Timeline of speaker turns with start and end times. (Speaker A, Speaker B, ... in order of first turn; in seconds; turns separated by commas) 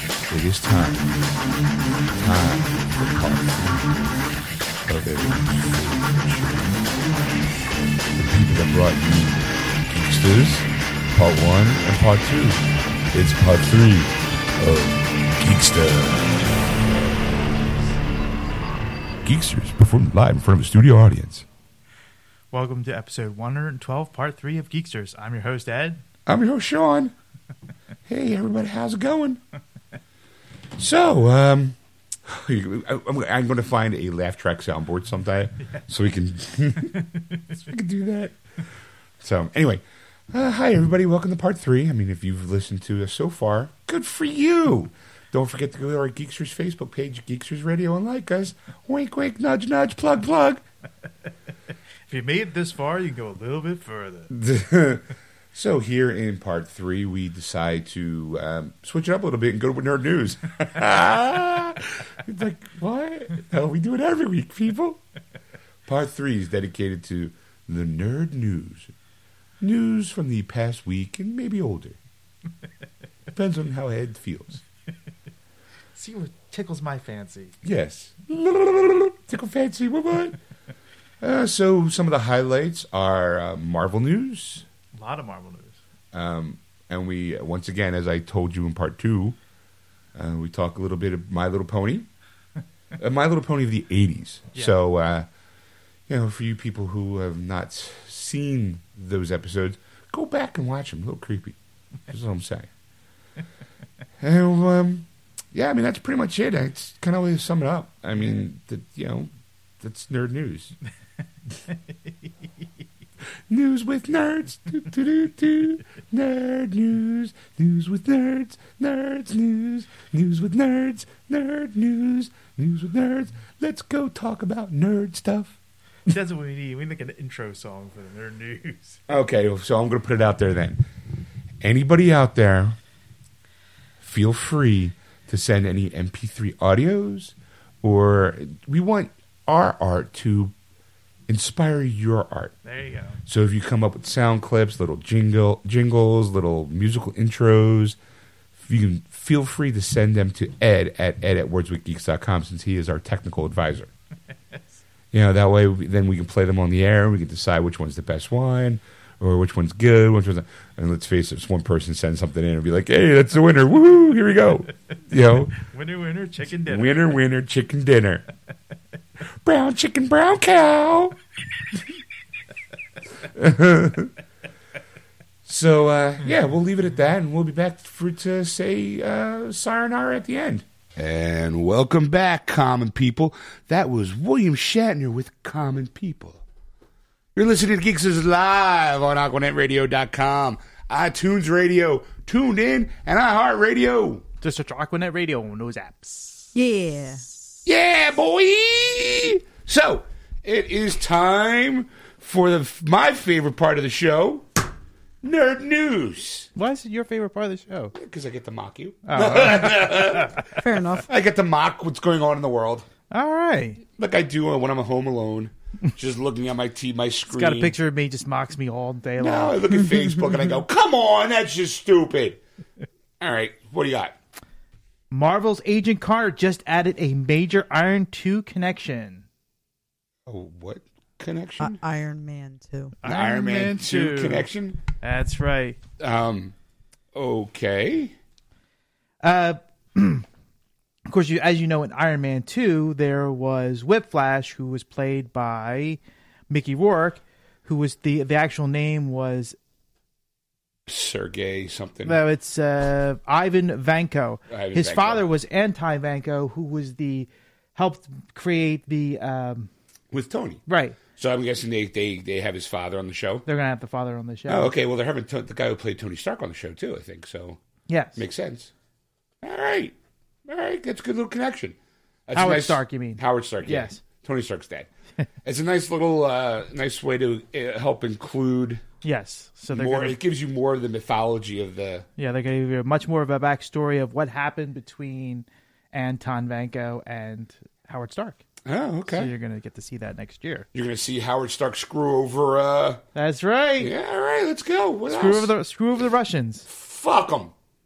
Speaker A: 0.3-1.1, Speaker A: 2.2-3.8, Speaker A: 4.9-6.8, Speaker A: 8.2-16.8, Speaker A: 19.2-21.5, Speaker B: 22.5-26.0, Speaker A: 26.2-27.1, Speaker A: 28.1-29.4, Speaker A: 30.8-38.4, Speaker A: 39.2-50.6, Speaker B: 52.1-54.3, Speaker A: 54.3-65.0, Speaker A: 65.9-68.9, Speaker A: 69.6-72.0, Speaker A: 73.3-74.6, Speaker B: 75.9-77.5, Speaker A: 77.6-80.4, Speaker A: 81.2-84.7, Speaker B: 85.0-85.8, Speaker A: 86.1-89.4, Speaker A: 90.1-92.1, Speaker A: 93.0-95.3, Speaker A: 96.1-101.6, Speaker A: 102.1-102.7, Speaker A: 104.2-110.8, Speaker A: 113.5-125.6, Speaker B: 126.1-129.0, Speaker A: 129.1-130.8, Speaker A: 131.6-132.8, Speaker A: 134.0-140.5, Speaker A: 141.3-142.6, Speaker B: 142.6-143.2, Speaker A: 143.2-148.0, Speaker A: 148.6-153.9, Speaker A: 155.1-165.6, Speaker B: 165.6-167.1, Speaker A: 166.6-168.2, Speaker A: 169.4-171.2, Speaker A: 173.2-174.1, Speaker A: 175.4-186.4, Speaker A: 187.3-194.2, Speaker B: 194.4-196.5, Speaker C: 196.6-197.2, Speaker A: 197.6-204.5, Speaker A: 205.2-206.5, Speaker B: 206.6-207.9, Speaker A: 207.9-210.4, Speaker B: 209.1-210.4, Speaker C: 210.6-211.1, Speaker A: 211.1-212.9, Speaker B: 213.1-213.8, Speaker A: 213.9-217.8, Speaker B: 217.3-219.6, Speaker A: 219.2-222.4, Speaker A: 223.2-224.2, Speaker B: 225.1-229.2, Speaker A: 230.2-231.8, Speaker C: 231.6-232.9, Speaker B: 233.0-234.4, Speaker A: 233.0-234.8, Speaker B: 235.0-235.8, Speaker A: 236.0-236.5, Speaker A: 237.1-238.2, Speaker B: 239.2-240.2, Speaker B: 241.1-246.0, Speaker B: 246.5-249.6, Speaker A: 250.9-252.2, Speaker B: 252.1-259.7, Speaker A: 254.5-255.3, Speaker A: 260.1-260.6, Speaker B: 260.7-261.0, Speaker A: 261.1-263.4, Speaker B: 263.5-264.7, Speaker A: 264.5-267.6, Speaker B: 267.9-268.2, Speaker A: 268.2-268.7, Speaker A: 269.4-274.9, Speaker B: 272.3-274.0, Speaker A: 275.4-278.8, Speaker B: 279.0-280.2, Speaker A: 279.7-282.1, Speaker B: 282.2-288.4, Speaker A: 288.6-289.3, Speaker B: 289.1-290.7, Speaker A: 290.7-293.0, Speaker B: 293.1-293.9, Speaker A: 293.8-295.5, Speaker B: 295.1-296.7, Speaker A: 296.7-297.5